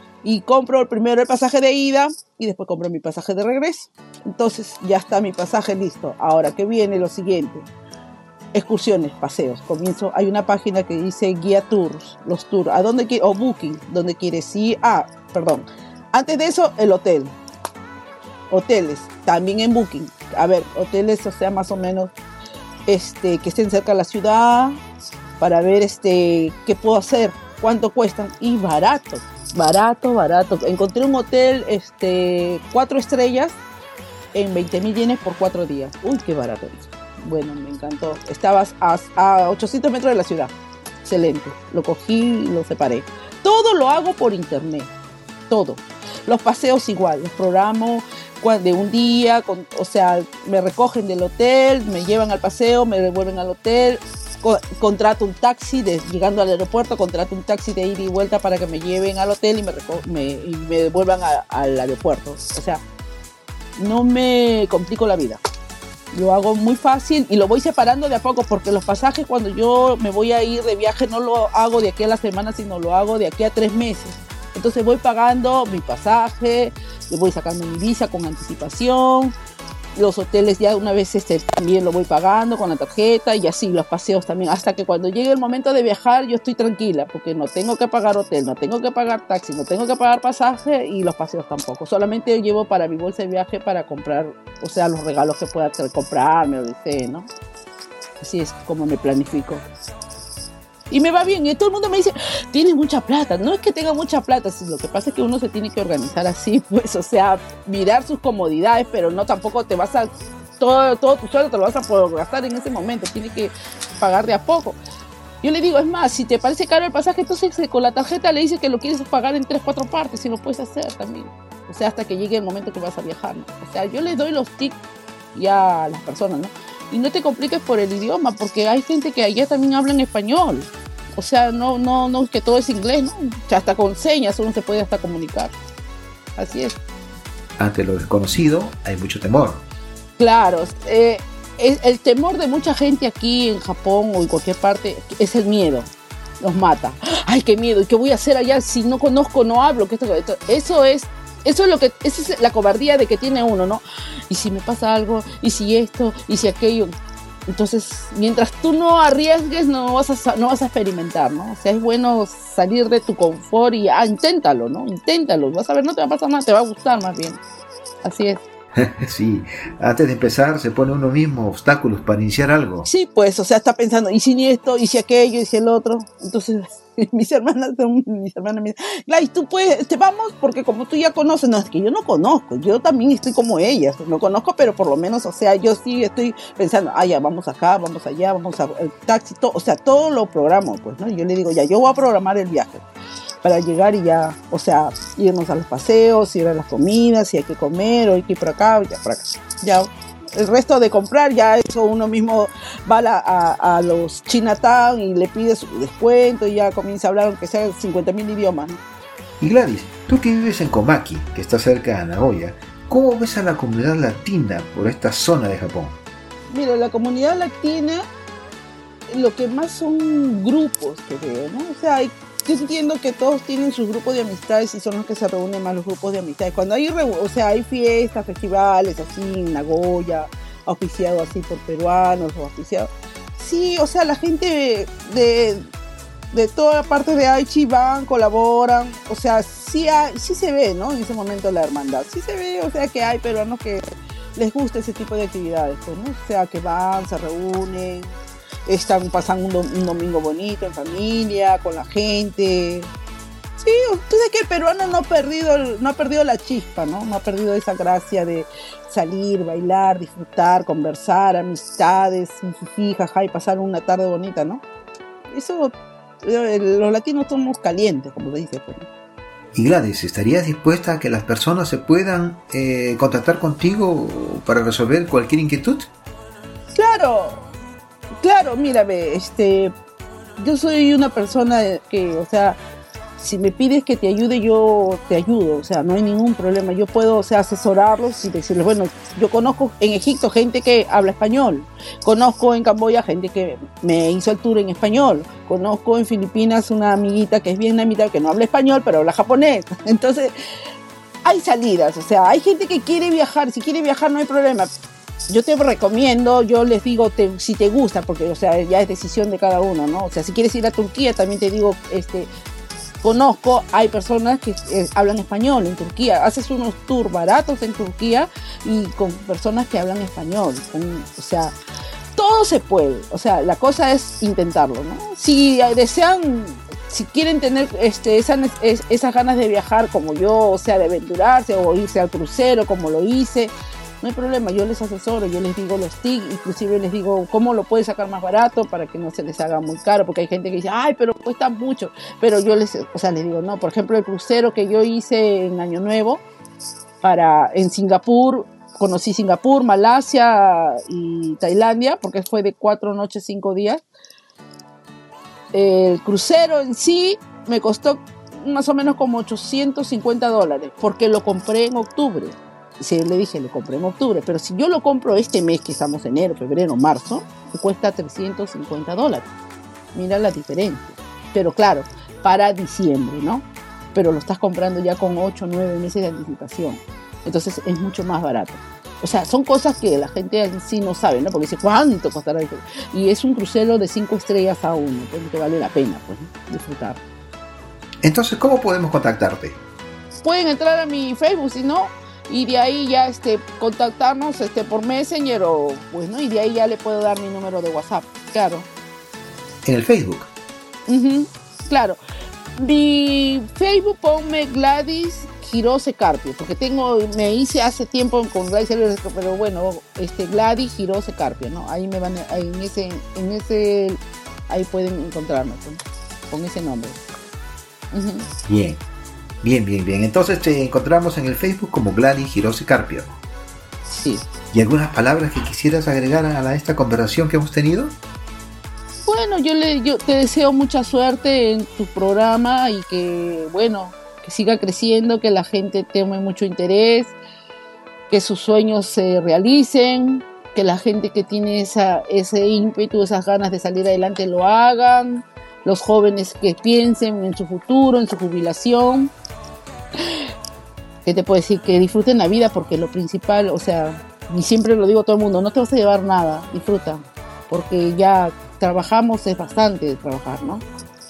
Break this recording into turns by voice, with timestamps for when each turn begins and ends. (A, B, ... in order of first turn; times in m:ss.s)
0:00.2-0:07.7 A
0:08.5-0:17.4 A
0:18.5-0:22.1 A
0:22.9-0:24.8 A
0:25.4-0:33.6 A
0:34.3-0:40.5 A
0:41.0-0:44.9 A
0:45.5-1:02.8 A
1:03.8-1:05.4 A
1:06.1-1:19.3 A
1:20.0-1:37.3 A
1:38.2-1:39.7 A
1:40.9-1:54.8 A
1:55.4-2:04.8 A
2:05.4-2:15.6 A
2:16.4-2:16.8 A
2:17.6-2:19.6 B
2:20.2-2:25.9 A
2:26.4-2:37.0 A
2:37.5-2:47.4 A
2:48.0-2:48.4 A
2:48.8-2:52.9 B
2:52.9-3:12.8 A
3:13.4-3:28.8 A
3:29.4-3:36.0 B
3:36.5-3:38.0 A
3:39.1-3:55.7 A
3:56.3-4:12.9 A
4:13.6-4:24.6 A
4:25.3-4:28.9 A
4:29.6-4:35.9 B
4:36.8-4:37.4 A
4:38.2-4:39.7 A
4:40.4-4:42.6 A
4:43.2-5:00.3 A
5:01.2-5:04.7 A
5:05.3-5:12.3 A
5:13.0-5:21.6 A
5:22.2-5:46.2 A
5:47.0-5:53.8 A
5:55.5-6:09.3 A
6:10.0-6:27.0 A
6:28.0-6:29.6 B
6:30.2-6:38.7 A
6:39.6-6:40.3 B
6:40.9-6:42.0 A
6:42.6-6:57.0 A
6:57.9-6:58.3 A
6:58.5-6:58.8 B
6:59.4-7:03.2 B
7:03.9-7:04.2 A
7:04.5-7:08.0 B
7:09.1-7:17.2 A
7:18.1-7:29.1 A
7:31.0-7:40.6 A